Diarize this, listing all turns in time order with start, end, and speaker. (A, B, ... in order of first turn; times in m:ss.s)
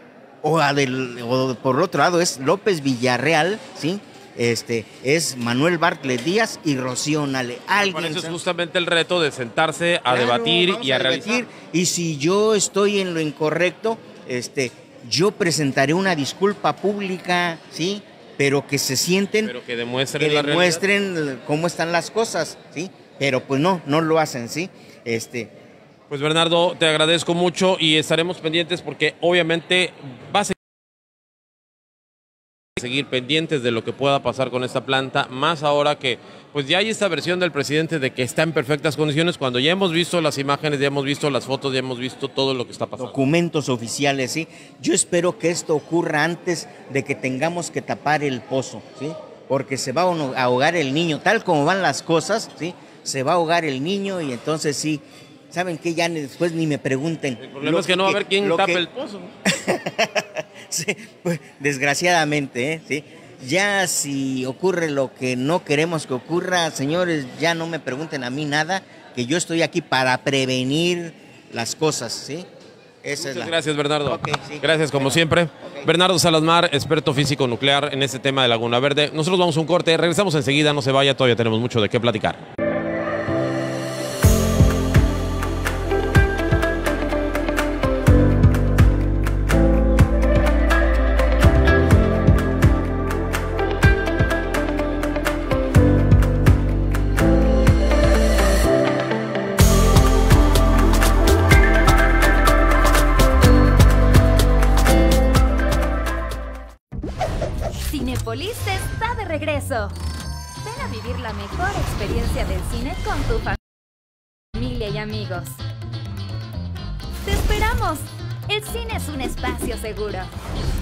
0:00.4-0:08.4 A
0:07.8-0:11.4 B
0:10.0-0:19.6 A
0:19.4-0:20.8 B
0:20.2-0:25.5 A
0:26.1-0:30.5 B
0:32.8-0:43.2 B
0:43.0-0:58.9 A
0:57.4-0:59.3 B
0:59.5-1:12.5 A
1:13.0-1:15.9 A
1:13.2-1:22.4 B
1:47.8-1:50.0 C
1:50.6-1:53.6 C
1:54.5-1:55.6 C
1:57.2-2:00.4 C